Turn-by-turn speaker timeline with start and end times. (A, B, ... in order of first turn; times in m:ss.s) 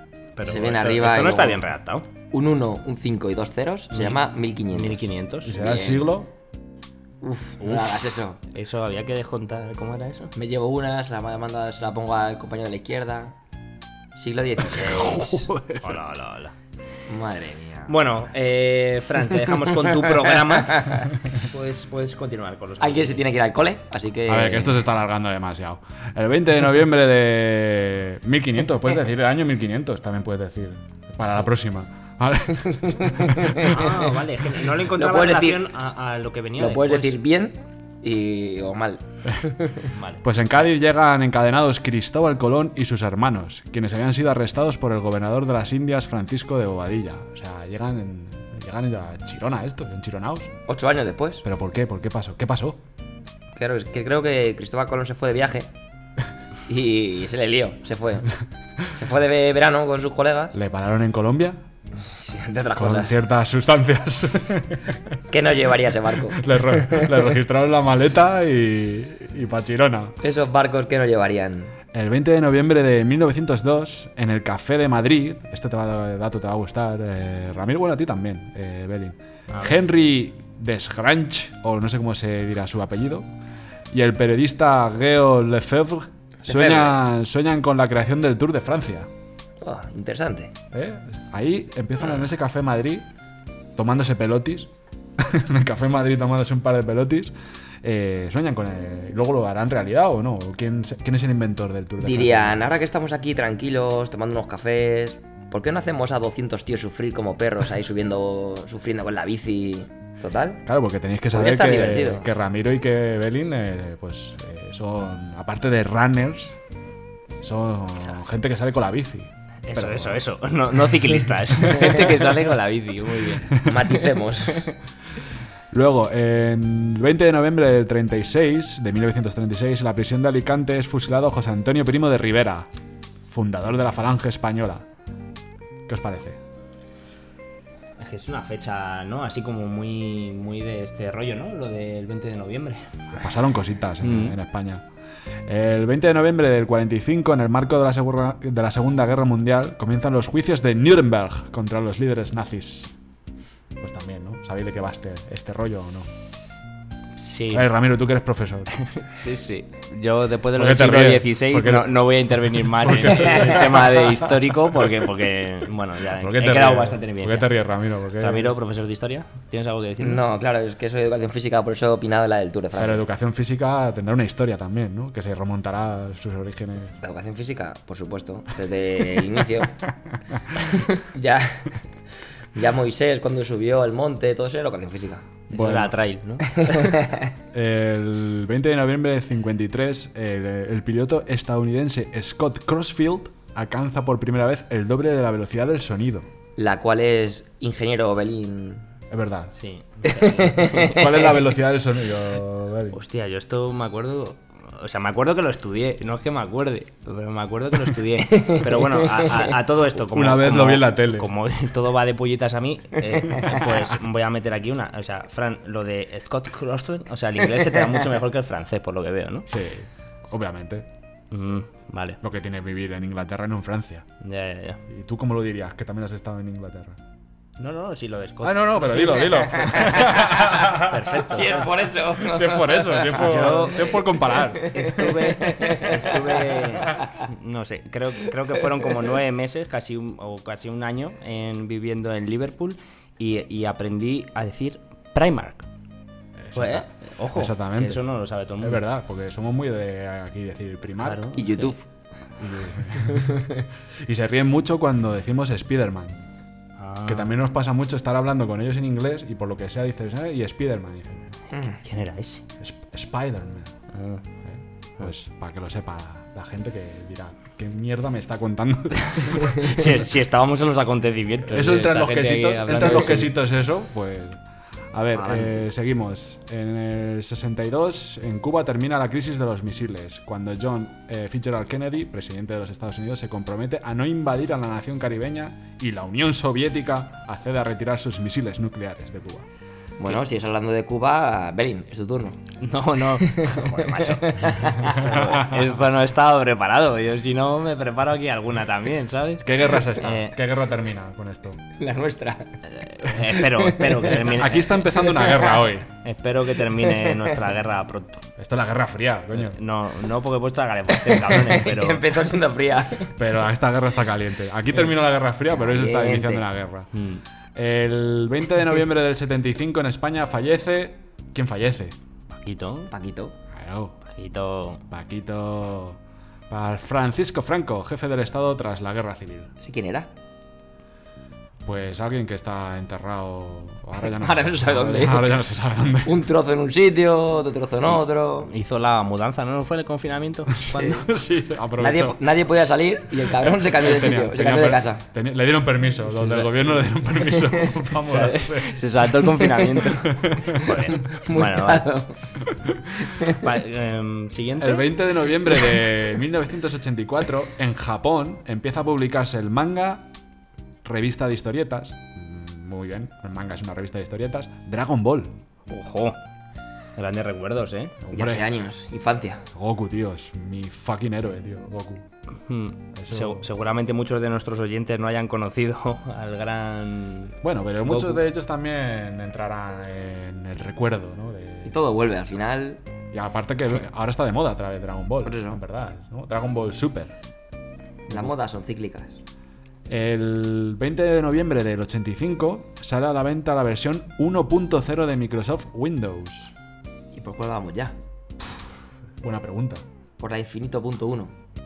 0:00.4-0:02.0 A
0:00.4-0:01.6 B
0:02.3-0:06.1 B
0:03.9-0:05.6 A
0:05.4-0:06.3 C
0:07.2-0:08.4 B
0:08.5-0:10.3 A
0:10.3-0:13.4 B
0:14.1-0:15.5 B
0:14.7-0:15.1 A
0:14.8-0:16.0 C
0:15.8-0:16.5 A
0:17.1-0:17.9 B
0:17.9-0:23.2 A
0:20.1-0:21.0 B
0:22.8-0:24.8 B
0:24.3-0:33.7 C
0:32.8-0:33.8 B
0:33.6-0:37.2 A
0:35.0-0:35.6 B
0:36.6-0:39.9 B
0:39.9-0:40.2 A
0:40.2-0:50.5 C
0:50.7-0:51.4 B
0:51.4-0:52.8 C
0:53.5-0:55.7 B
0:56.7-0:58.3 B
0:58.9-1:00.5 B
1:00.5-1:01.6 C
1:01.9-1:03.1 B
1:02.8-1:05.0 C
1:05.3-1:07.2 B
1:06.4-1:10.2 C
1:10.2-1:11.8 B
1:11.9-1:23.3 C
1:19.5-1:19.8 A
1:23.9-1:29.1 C
1:26.4-1:27.0 B
1:29.6-1:30.5 B
1:30.7-1:33.1 C
1:33.8-1:42.7 C
1:42.0-1:50.6 B
1:50.6-1:56.6 C
1:51.3-1:52.3 B
1:57.4-2:00.2 C
1:59.6-2:03.6 A
2:01.5-2:02.0 C
2:03.5-2:03.8 C
2:03.6-2:04.7 B
2:05.7-2:12.7 C
2:13.3-2:14.8 C
2:15.9-2:16.4 C
2:18.0-2:22.8 A
2:23.2-2:24.8 C
2:24.0-2:24.3 A
2:25.4-2:32.9 C
2:33.8-2:36.1 C
2:37.2-2:37.7 A
2:37.5-2:38.7 C
2:38.8-2:47.5 A
2:40.5-2:44.9 C
2:46.2-2:48.5 C
2:48.2-2:50.2 A
2:50.0-2:53.0 B
2:52.8-2:57.0 C
2:57.0-2:59.8 B
3:00.7-3:01.8 B
3:02.5-3:05.4 B
3:05.5-3:05.9 C
3:05.5-3:06.9 A
3:06.5-3:07.3 B
3:07.5-3:16.3 C
3:16.6-3:18.8 B
3:19.1-3:19.5 C
3:19.6-3:21.0 A
3:20.2-3:21.2 B
3:20.8-3:23.0 C
3:22.9-3:39.5 A
3:30.0-3:31.3 C
3:39.5-3:40.9 C
3:41.3-3:42.2 A
3:42.2-3:44.1 C
3:44.2-3:44.8 A
3:44.9-3:47.0 C
3:47.6-3:51.7 A
3:48.4-3:51.6 C
3:51.3-3:53.8 B
3:52.1-3:55.3 C
3:53.1-3:54.0 A
3:54.4-3:56.3 B
3:54.6-4:05.6 A
4:06.4-4:08.0 C
4:06.5-4:08.8 A
4:08.6-4:11.3 C
4:11.0-4:11.7 A
4:11.4-4:11.8 B
4:12.4-4:16.2 C
4:16.8-4:17.3 A
4:17.0-4:21.3 C
4:21.5-4:21.8 B
4:21.6-4:22.4 A
4:22.6-4:23.8 C
4:23.9-4:24.2 A
4:24.4-4:29.8 C
4:29.1-4:33.3 A
4:31.5-4:34.4 C
4:34.9-4:49.4 C
4:35.1-4:35.6 B
4:50.0-4:52.5 B
4:52.6-5:00.4 A
4:53.2-4:55.2 B
4:55.2-4:55.7 C
4:59.4-5:01.6 C
5:01.8-5:04.3 B
5:02.6-5:04.8 A
5:04.2-5:05.9 C
5:05.0-5:05.6 B
5:06.0-5:08.2 A
5:08.4-5:09.6 C
5:09.3-5:12.0 A
5:11.2-5:13.2 B
5:13.2-5:16.9 C
5:15.6-5:16.4 B
5:16.9-5:17.2 A
5:17.5-5:22.0 C
5:22.4-5:22.9 A
5:22.9-5:23.3 B
5:23.5-5:24.0 C
5:24.0-5:24.8 A
5:24.9-5:29.5 C
5:29.6-5:30.1 B
5:31.6-5:36.2 C
5:34.0-5:35.4 B
5:36.0-5:38.5 B
5:38.4-5:41.0 A
5:40.5-5:42.2 C
5:41.8-5:45.0 B
5:43.3-5:48.8 C
5:46.1-5:46.8 A
5:48.0-5:51.9 A
5:50.0-5:50.8 C
5:50.9-5:52.1 B
5:53.0-5:53.4 B
5:53.2-5:55.0 A
5:54.6-6:00.1 C
6:00.8-6:05.4 C
6:05.7-6:06.2 A
6:07.0-6:08.0 A
6:08.0-6:08.4 C
6:08.1-6:09.4 B
6:09.5-6:12.1 C
6:12.5-6:18.2 A
6:12.9-6:13.4 C
6:17.4-6:21.8 C
6:21.6-6:22.8 B
6:23.1-6:27.1 C
6:25.2-6:25.6 B
6:28.1-6:29.2 B
6:29.9-6:36.5 C
6:37.1-6:38.0 B
6:39.2-6:39.8 C
6:40.2-6:41.3 B